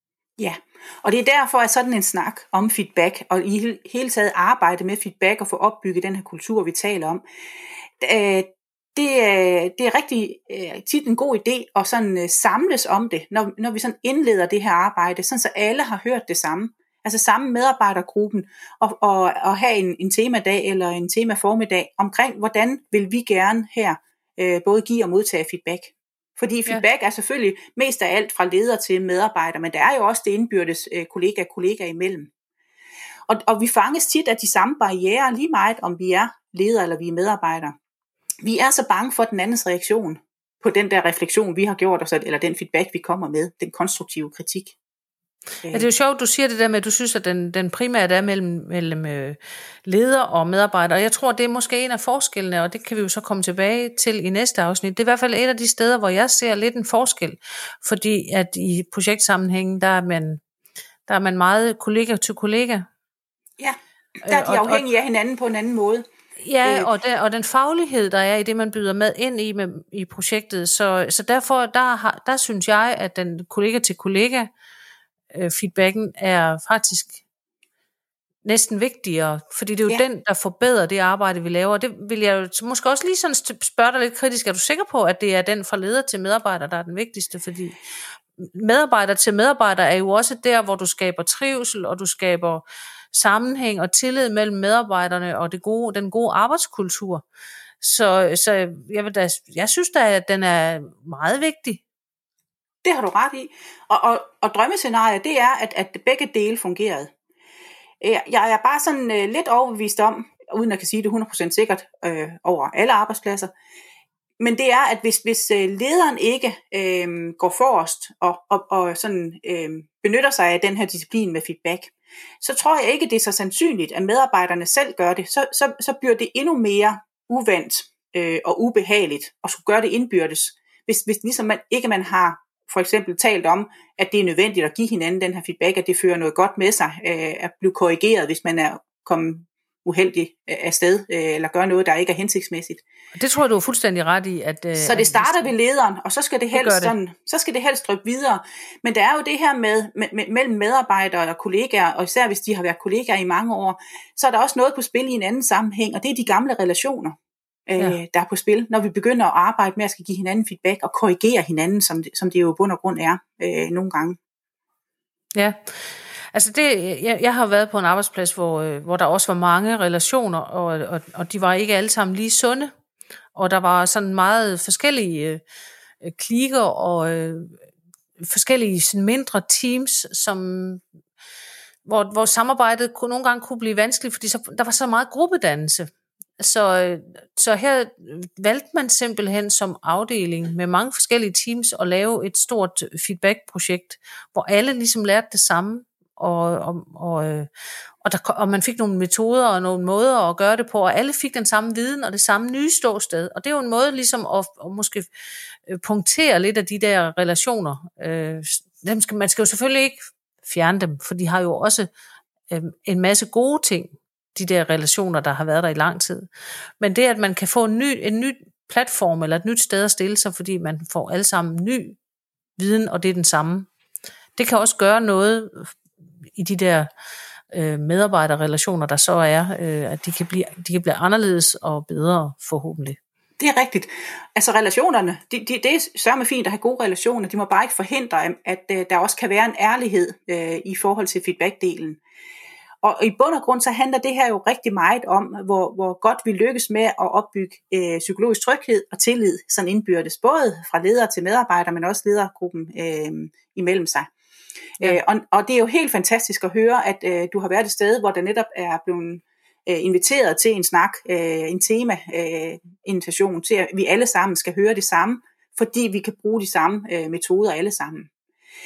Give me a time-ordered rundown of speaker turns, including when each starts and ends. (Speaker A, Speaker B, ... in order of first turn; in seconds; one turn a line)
Speaker A: 0.4-7.2
Speaker A: 8.0-32.3
Speaker A: 33.3-37.8
Speaker A: 38.4-44.8
Speaker B: 45.7-60.4
Speaker B: 61.1-62.9
Speaker A: 63.6-66.0
Speaker B: 64.2-64.8
Speaker B: 66.4-74.5
Speaker A: 66.6-66.9
Speaker B: 75.3-77.2
Speaker B: 78.5-87.8
Speaker B: 88.4-97.2
Speaker B: 97.8-101.8
Speaker A: 102.8-107.1
Speaker A: 108.0-113.5
Speaker A: 114.4-142.8
Speaker B: 143.2-145.5
Speaker A: 144.8-157.2
Speaker B: 146.5-146.9
Speaker A: 157.7-164.2
Speaker B: 165.3-172.7
Speaker B: 173.3-175.4
Speaker B: 176.0-177.6
Speaker B: 178.2-180.8
Speaker B: 181.8-197.5
Speaker B: 198.0-205.1
Speaker B: 205.7-211.9
Speaker B: 212.5-216.3
Speaker B: 216.8-222.0
Speaker B: 222.6-223.7
Speaker B: 224.4-225.8
Speaker B: 226.3-226.9
Speaker B: 227.5-233.0
Speaker A: 233.4-242.0
Speaker A: 242.8-254.1
Speaker A: 254.8-268.1